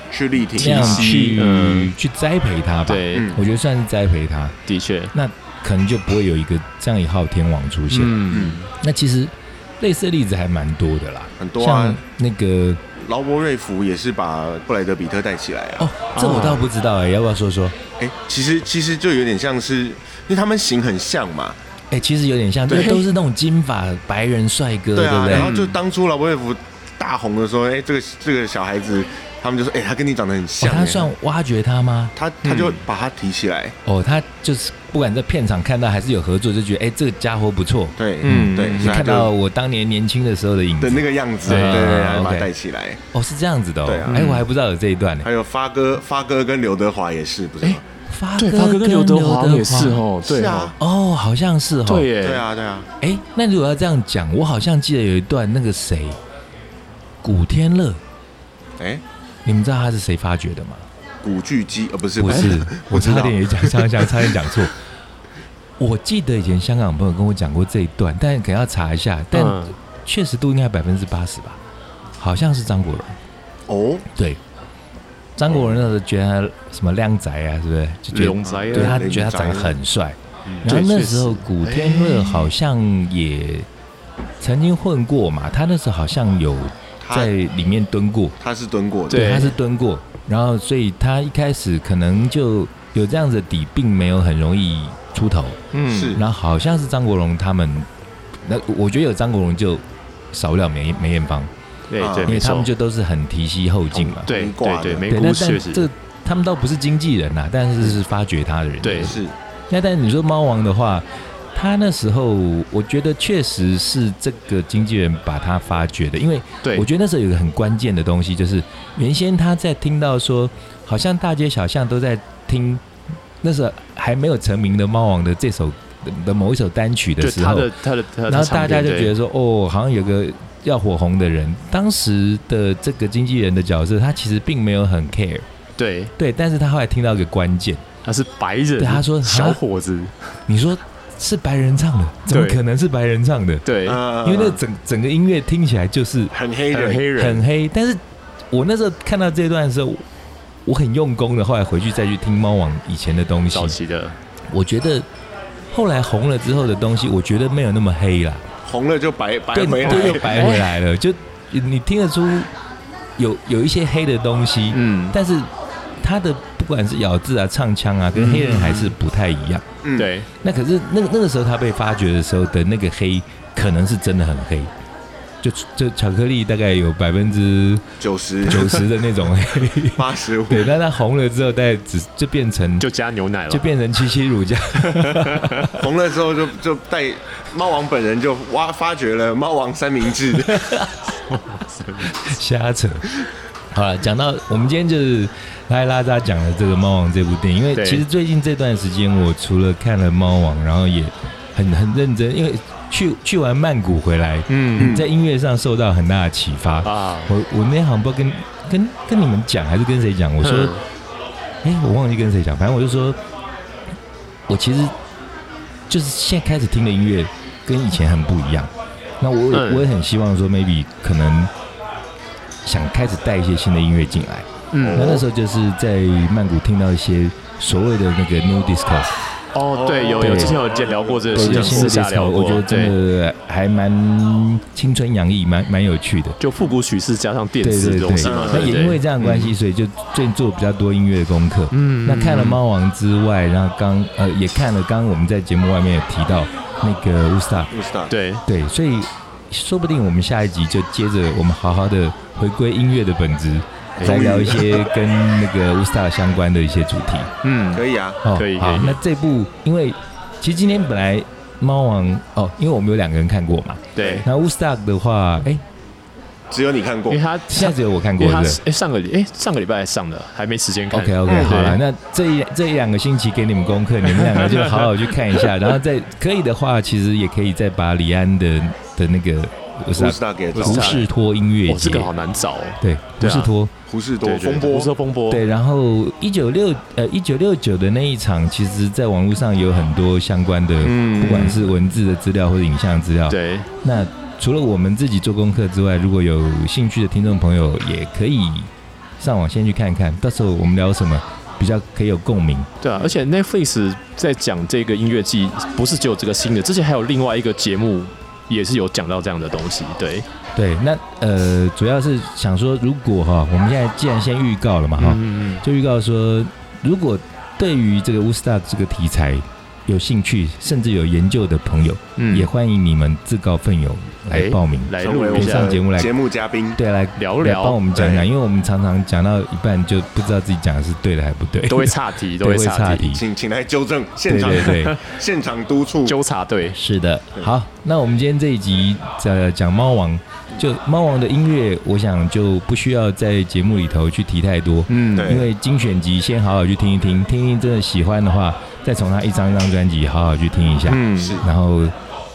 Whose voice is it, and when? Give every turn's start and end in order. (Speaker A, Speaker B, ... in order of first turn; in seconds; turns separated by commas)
Speaker A: 0.1-1.3, Speaker B: 0.6-4.6, Speaker C: 0.6-1.9, Speaker C: 2.9-3.4, Speaker A: 3.1-3.4, Speaker C: 4.7-5.1, Speaker B: 5.1-12.8, Speaker C: 7.9-8.7, Speaker A: 8.3-8.6, Speaker A: 11.4-12.0, Speaker A: 13.0-15.9, Speaker B: 15.8-17.8, Speaker C: 16.1-16.6, Speaker A: 18.0-21.6, Speaker B: 21.9-25.5, Speaker A: 22.7-23.0, Speaker C: 22.7-23.0, Speaker A: 24.9-31.1, Speaker C: 25.3-25.8, Speaker B: 30.6-32.1, Speaker A: 32.2-33.8, Speaker C: 32.4-32.8, Speaker B: 33.9-42.5, Speaker A: 38.0-39.3, Speaker C: 38.2-39.0, Speaker A: 40.8-43.0, Speaker C: 41.5-41.9, Speaker B: 43.1-45.3, Speaker A: 43.9-44.2, Speaker C: 44.1-44.5, Speaker A: 45.2-47.9, Speaker B: 48.1-50.0, Speaker C: 48.4-50.7, Speaker A: 50.2-50.8, Speaker B: 50.8-52.1, Speaker C: 51.9-52.4, Speaker A: 52.2-52.9, Speaker B: 53.0-56.2, Speaker B: 57.2-58.0, Speaker B: 59.5-60.9, Speaker A: 61.2-64.5, Speaker B: 62.2-64.7, Speaker C: 62.3-62.6, Speaker B: 65.8-71.6, Speaker C: 69.3-69.8, Speaker B: 72.2-73.2, Speaker A: 73.7-74.1, Speaker B: 74.1-74.4, Speaker B: 75.4-83.7, Speaker A: 75.5-75.9, Speaker C: 78.1-79.2, Speaker A: 78.4-79.8, Speaker C: 80.5-82.5, Speaker B: 84.4-88.3, Speaker A: 87.0-87.3, Speaker A: 88.4-89.4, Speaker C: 89.1-89.5, Speaker B: 89.1-95.6, Speaker C: 95.7-96.2, Speaker A: 95.9-96.2, Speaker B: 96.2-97.9, Speaker B: 98.4-101.5, Speaker C: 101.9-102.7, Speaker A: 102.0-102.4, Speaker B: 102.2-104.3, Speaker C: 103.9-105.9, Speaker A: 104.3-105.1, Speaker B: 105.1-109.2, Speaker C: 108.8-109.2, Speaker A: 109.0-109.3, Speaker B: 109.7-122.9, Speaker C: 116.6-116.9, Speaker B: 123.4-127.7, Speaker C: 127.2-129.1, Speaker B: 128.3-135.4, Speaker C: 135.8-136.1, Speaker B: 136.2-137.8, Speaker C: 138.0-140.3, Speaker B: 138.8-139.6, Speaker B: 140.5-143.7, Speaker C: 142.3-142.6, Speaker C: 143.6-144.0, Speaker A: 143.8-144.6, Speaker B: 144.2-146.3, Speaker A: 146.3-147.1, Speaker C: 146.7-147.4, Speaker B: 147.2-150.1, Speaker B: 150.7-153.8, Speaker C: 153.5-154.2, Speaker B: 154.5-155.1, Speaker B: 155.7-158.4, Speaker A: 158.7-160.5, Speaker B: 159.5-162.5, Speaker C: 159.8-160.7, Speaker B: 163.2-169.7, Speaker C: 164.7-165.2, Speaker C: 168.2-168.9, Speaker A: 169.8-170.1, Speaker C: 170.0-170.3, Speaker B: 170.4-174.7, Speaker B: 175.4-177.8, Speaker A: 178.0-178.9, Speaker B: 178.4-182.9, Speaker A: 179.9-180.7, Speaker C: 182.8-183.7, Speaker B: 183.5-185.9, Speaker C: 184.8-185.7, Speaker A: 185.7-190.8, Speaker B: 190.5-190.9, Speaker C: 191.3-192.3, Speaker B: 192.1-193.1, Speaker B: 193.7-210.7, Speaker C: 197.7-198.0, Speaker C: 204.5-205.0, Speaker A: 204.8-205.1, Speaker C: 206.8-207.3, Speaker C: 210.4-210.8, Speaker B: 211.6-213.2, Speaker B: 214.5-214.9, Speaker B: 215.9-221.5, Speaker C: 219.5-219.9, Speaker B: 222.6-229.1, Speaker C: 224.7-225.2, Speaker A: 224.8-225.2, Speaker C: 229.5-232.9, Speaker A: 229.7-232.0, Speaker B: 230.2-230.7, Speaker B: 231.3-236.4, Speaker C: 236.4-239.5, Speaker B: 237.6-247.7, Speaker A: 238.2-238.9, Speaker C: 241.7-242.6, Speaker A: 247.7-248.1, Speaker C: 248.1-248.4, Speaker B: 248.5-257.3, Speaker C: 254.0-254.6, Speaker A: 254.0-254.8, Speaker C: 257.4-259.0, Speaker A: 257.7-258.2, Speaker B: 258.2-265.6, Speaker C: 263.9-264.3, Speaker A: 264.0-264.2, Speaker A: 266.5-267.2, Speaker C: 267.1-271.8, Speaker B: 267.5-268.6, Speaker B: 270.9-282.1, Speaker A: 271.3-271.6, Speaker C: 274.2-274.9, Speaker A: 279.9-281.0, Speaker C: 280.5-281.1, Speaker C: 281.7-283.5, Speaker B: 282.8-283.7, Speaker A: 283.9-284.9, Speaker C: 284.2-285.4, Speaker B: 285.3-302.7, Speaker C: 290.8-291.7, Speaker C: 293.3-293.7, Speaker C: 302.8-310.3, Speaker B: 310.6-326.1, Speaker C: 315.0-315.6, Speaker C: 322.2-322.5, Speaker C: 324.3-325.8, Speaker A: 325.0-326.8, Speaker B: 326.8-333.2, Speaker C: 327.2-328.2, Speaker A: 328.0-328.2, Speaker C: 331.7-333.1, Speaker A: 333.0-336.2, Speaker B: 334.3-335.0, Speaker C: 334.4-335.0, Speaker C: 336.1-336.8, Speaker B: 336.7-351.9, Speaker C: 344.9-345.4, Speaker A: 345.1-345.5, Speaker C: 350.9-351.4, Speaker A: 351.1-351.4